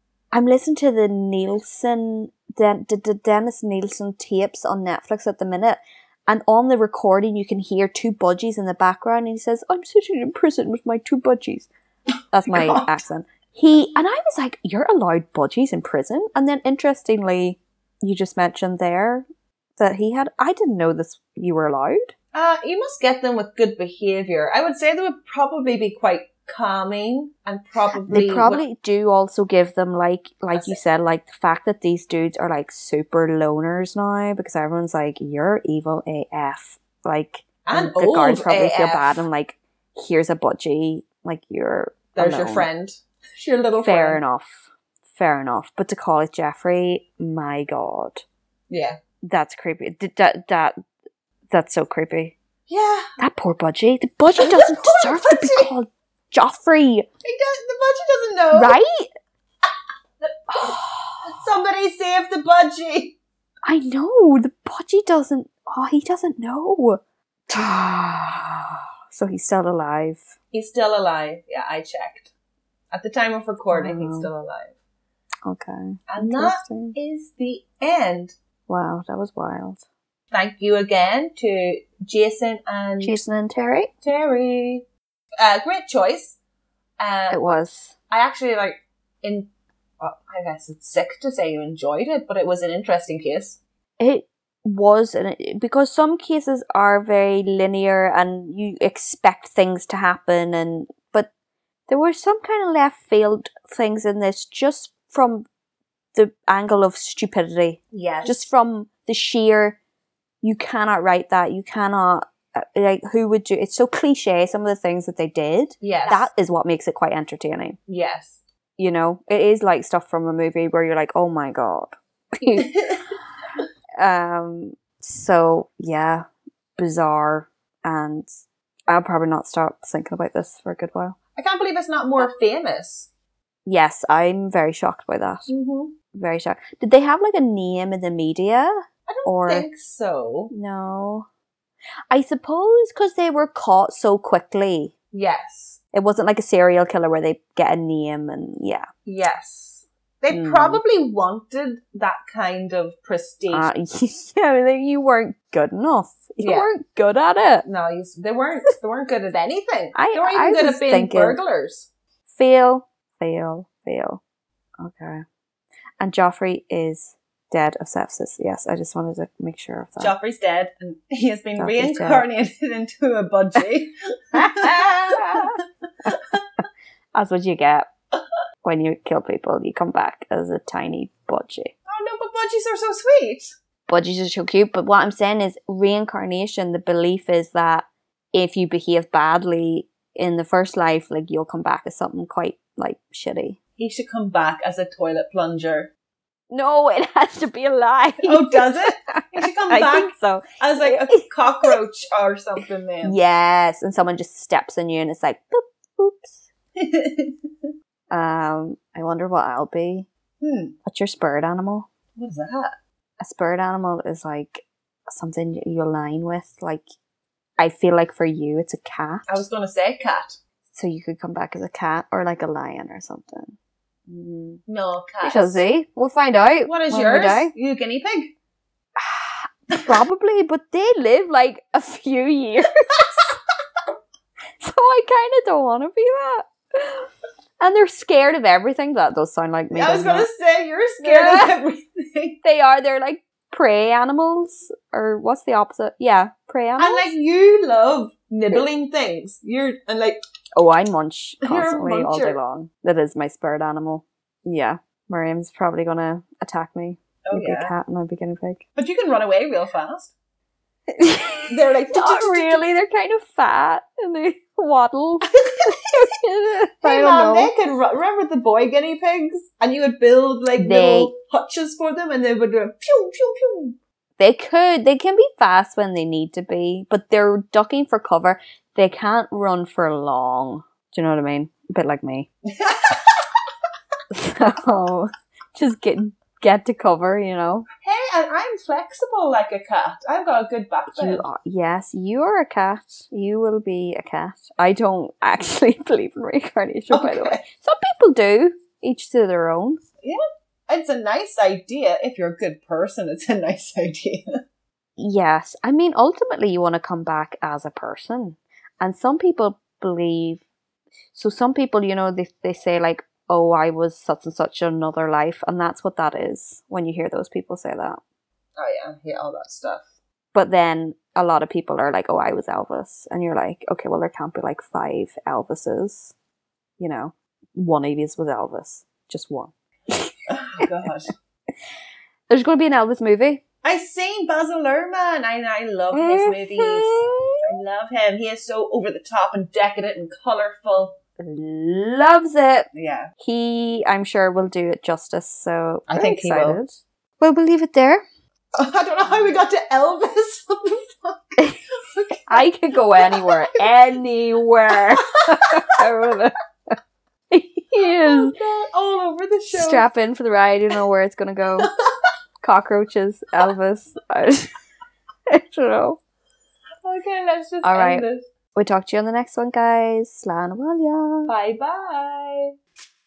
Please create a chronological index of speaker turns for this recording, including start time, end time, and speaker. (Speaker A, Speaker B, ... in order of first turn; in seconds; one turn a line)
Speaker A: 0.3-11.7
Speaker A: 12.3-19.3
Speaker B: 12.5-13.0
Speaker A: 19.8-22.1
Speaker B: 22.3-28.6
Speaker A: 28.1-42.7
Speaker B: 37.6-39.2
Speaker B: 42.1-44.2
Speaker A: 43.8-48.2
Speaker B: 48.7-49.0
Speaker A: 49.2-50.8
Speaker A: 51.5-52.4
Speaker B: 52.7-53.1
Speaker A: 53.2-57.1
Speaker B: 54.4-55.7
Speaker B: 57.2-58.8
Speaker A: 58.5-59.1
Speaker B: 60.2-63.2
Speaker A: 60.5-61.3
Speaker A: 63.6-70.3
Speaker B: 70.5-72.3
Speaker B: 72.9-74.8
Speaker A: 73.7-74.3
Speaker A: 75.5-77.0
Speaker B: 76.1-78.3
Speaker A: 78.7-79.8
Speaker B: 80.3-83.2
Speaker A: 83.0-83.9
Speaker B: 84.0-84.9
Speaker B: 85.4-86.4
Speaker B: 87.0-87.5
Speaker A: 87.3-88.0
Speaker B: 88.1-89.5
Speaker B: 90.0-93.6
Speaker A: 94.0-101.3
Speaker A: 101.9-105.5
Speaker A: 106.2-109.8
Speaker B: 107.9-108.5
Speaker A: 110.4-117.8
Speaker B: 115.8-116.3
Speaker B: 117.9-118.4
Speaker A: 118.8-122.7
Speaker B: 122.6-123.0
Speaker A: 124.0-126.3
Speaker A: 126.8-131.2
Speaker B: 131.4-133.1
Speaker A: 133.7-135.5
Speaker B: 135.5-135.9
Speaker A: 136.1-139.7
Speaker B: 139.1-140.5
Speaker A: 140.5-141.3
Speaker A: 142.1-144.9
Speaker B: 145.1-145.8
Speaker A: 145.9-148.9
Speaker B: 149.1-153.7
Speaker A: 150.3-150.8
Speaker A: 153.5-157.7
Speaker B: 156.4-156.7
Speaker B: 157.7-161.9
Speaker A: 159.9-161.4
Speaker A: 162.3-164.2
Speaker A: 164.8-165.2
Speaker A: 166.0-170.1
Speaker B: 170.0-176.4
Speaker A: 171.6-172.3
Speaker A: 174.3-176.6
Speaker A: 177.1-177.9
Speaker A: 178.6-181.7
Speaker B: 181.9-183.5
Speaker A: 183.9-193.6
Speaker B: 193.8-195.9
Speaker A: 196.5-201.8
Speaker B: 198.2-203.2
Speaker A: 203.0-206.4
Speaker B: 206.8-207.4
Speaker A: 208.1-210.1
Speaker B: 210.4-210.8
Speaker A: 210.9-211.9
Speaker B: 212.2-212.8
Speaker A: 213.2-216.8
Speaker A: 217.6-219.4
Speaker B: 219.3-220.4
Speaker A: 220.7-223.6
Speaker A: 224.1-224.6
Speaker B: 224.7-225.6
Speaker A: 225.2-227.5
Speaker B: 226.7-228.3
Speaker A: 229.0-233.4
Speaker B: 233.0-233.3
Speaker A: 234.6-237.1
Speaker A: 237.6-240.3
Speaker B: 239.7-242.4
Speaker A: 241.0-241.6
Speaker A: 242.4-247.1
Speaker B: 246.8-250.2
Speaker A: 250.6-258.6
Speaker B: 251.4-252.4
Speaker B: 257.3-257.7
Speaker B: 258.8-260.1
Speaker A: 260.9-267.5
Speaker B: 261.5-262.6
Speaker B: 266.8-273.8
Speaker A: 270.6-271.1
Speaker A: 274.2-282.3
Speaker B: 282.5-283.2
Speaker A: 284.1-287.7
Speaker B: 287.8-291.2
Speaker A: 291.0-299.8
Speaker B: 296.9-297.4
Speaker B: 300.0-304.4
Speaker A: 305.0-310.4
Speaker A: 311.1-318.0
Speaker B: 318.6-319.9
Speaker A: 320.3-326.1
Speaker A: 326.8-330.7
Speaker B: 330.3-331.1
Speaker A: 332.3-333.4
Speaker B: 333.6-341.0
Speaker A: 335.9-337.4
Speaker A: 341.2-348.0
Speaker B: 342.7-343.1
Speaker B: 345.9-346.6
Speaker B: 348.6-353.7
Speaker A: 352.3-356.8
Speaker B: 355.4-355.6
Speaker A: 357.3-358.3
Speaker B: 357.8-359.9
Speaker A: 359.5-361.7
Speaker A: 362.4-364.5
Speaker A: 365.3-366.0
Speaker B: 366.8-368.3
Speaker A: 367.6-371.3
Speaker B: 371.3-372.6